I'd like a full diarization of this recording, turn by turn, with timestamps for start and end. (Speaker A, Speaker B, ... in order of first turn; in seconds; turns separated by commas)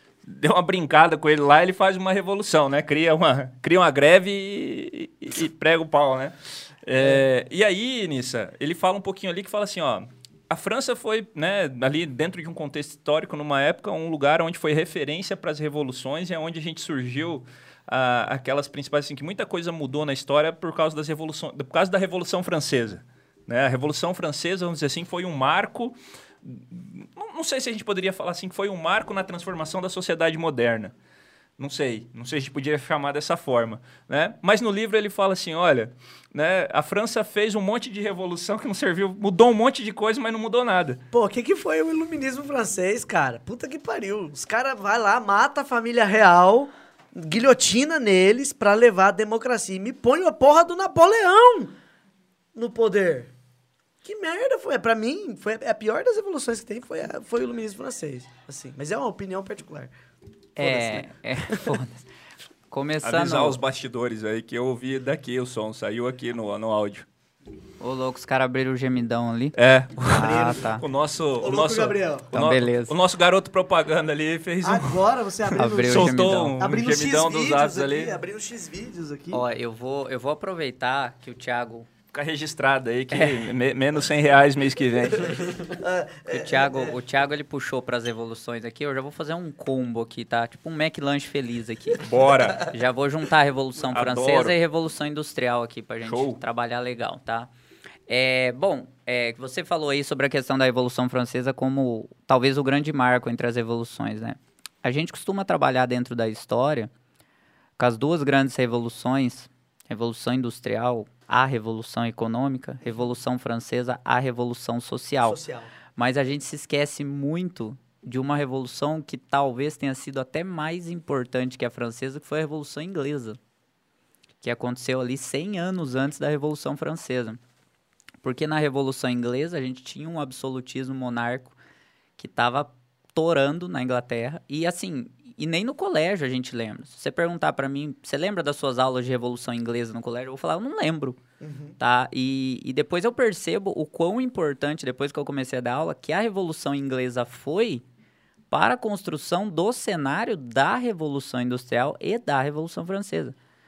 Speaker A: 0.2-30.9, Speaker A: 31.6-41.0, Speaker B: 41.1-51.8, Speaker B: 52.5-53.3, Speaker B: 54.0-59.9, Speaker B: 60.5-61.8, Speaker C: 60.6-62.0, Speaker C: 62.7-63.6, Speaker A: 63.0-67.1, Speaker C: 67.8-69.5, Speaker A: 69.5-78.2, Speaker C: 70.0-70.8, Speaker B: 70.1-70.7, Speaker B: 71.4-72.3, Speaker C: 72.3-72.9, Speaker B: 74.6-79.4, Speaker C: 75.6-76.6, Speaker C: 79.3-81.9, Speaker A: 82.1-85.7, Speaker C: 83.1-83.4, Speaker B: 85.6-87.0, Speaker C: 86.3-97.5, Speaker A: 92.0-92.7, Speaker A: 93.8-94.5, Speaker A: 96.0-96.4, Speaker C: 98.1-106.9, Speaker C: 107.8-115.4, Speaker B: 115.2-115.7, Speaker C: 116.0-123.4, Speaker C: 124.4-127.4, Speaker C: 128.2-131.6, Speaker C: 132.2-141.2, Speaker B: 141.4-141.8, Speaker C: 141.8-147.8, Speaker C: 148.5-153.3